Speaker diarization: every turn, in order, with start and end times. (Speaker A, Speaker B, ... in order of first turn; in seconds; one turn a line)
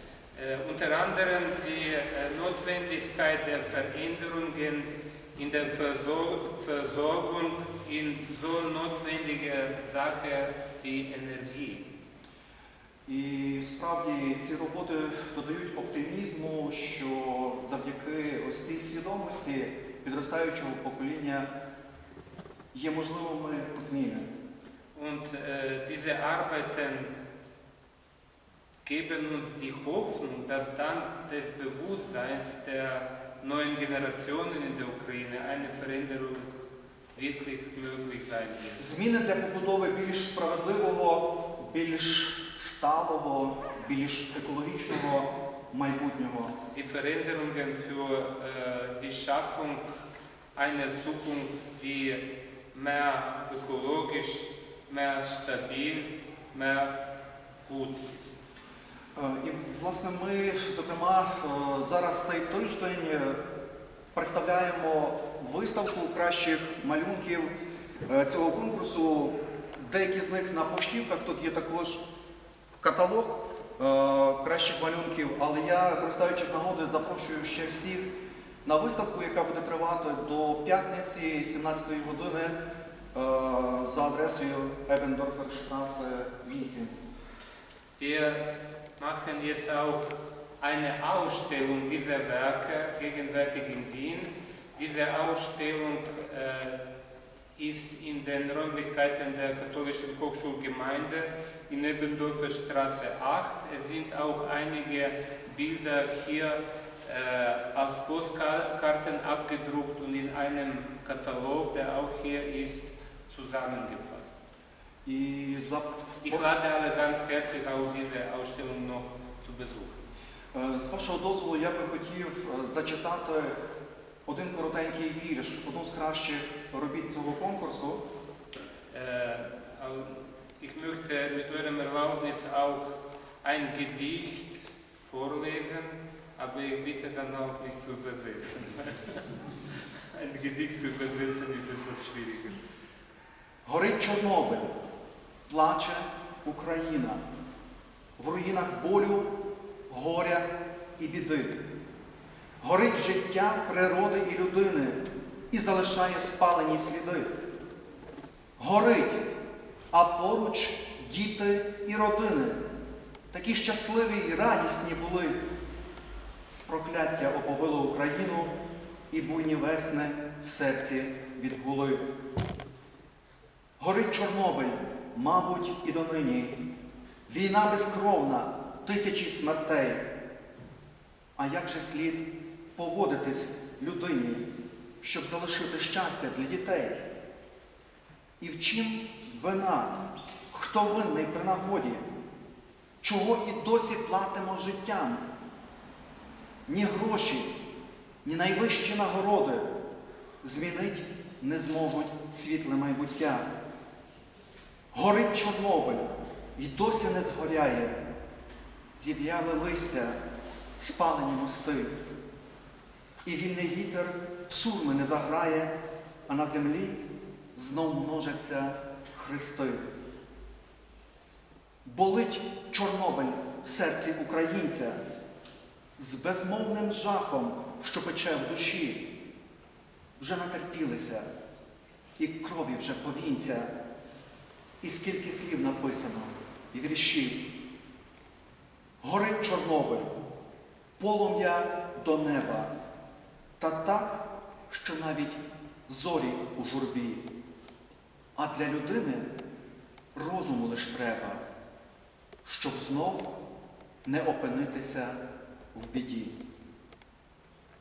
Speaker A: 0.3-11.9
Speaker B: 13.1-21.5
Speaker B: 22.7-24.3
Speaker A: 24.9-27.1
Speaker A: 28.8-36.5
Speaker A: 37.1-38.9
Speaker B: 38.8-46.5
Speaker A: 46.7-49.8
Speaker A: 50.5-56.9
Speaker A: 57.6-58.1
Speaker B: 59.1-63.4
Speaker B: 64.1-67.5
Speaker B: 68.1-72.0
Speaker B: 72.8-78.0
Speaker B: 78.6-82.6
Speaker B: 83.1-86.9
Speaker A: 88.0-88.5
Speaker A: 89.0-96.8
Speaker A: 97.6-114.3
Speaker B: 115.0-116.5
Speaker A: 116.2-120.0
Speaker B: 120.5-123.6
Speaker B: 124.2-128.0
Speaker A: 128.9-132.9
Speaker A: 133.4-139.5
Speaker A: 140.1-142.6
Speaker B: 143.6-144.7
Speaker B: 145.5-147.2
Speaker B: 148.2-149.3
Speaker B: 149.9-151.6
Speaker B: 152.6-157.3
Speaker B: 158.6-159.2
Speaker B: 159.9-162.6
Speaker B: 163.3-165.4
Speaker B: 166.7-168.5
Speaker B: 169.1-172.0
Speaker B: 173.8-176.5
Speaker B: 177.3-180.0
Speaker B: 181.3-184.4
Speaker B: 185.0-187.0
Speaker B: 188.4-192.0
Speaker B: 193.0-195.2
Speaker B: 196.7-197.5
Speaker B: 198.2-199.7
Speaker B: 200.4-203.5
Speaker B: 204.9-207.9
Speaker B: 208.9-210.2
Speaker B: 210.8-211.9
Speaker B: 213.2-215.7
Speaker B: 216.3-217.0
Speaker B: 217.5-219.8
Speaker B: 221.8-225.0
Speaker B: 226.0-229.1
Speaker B: 230.2-231.3
Speaker B: 232.2-233.7
Speaker B: 234.8-237.5
Speaker B: 239.0-240.1
Speaker B: 241.0-242.7
Speaker B: 243.6-247.2
Speaker B: 248.3-249.3
Speaker B: 250.1-251.4
Speaker B: 252.4-253.3
Speaker B: 254.0-255.2
Speaker B: 255.7-256.3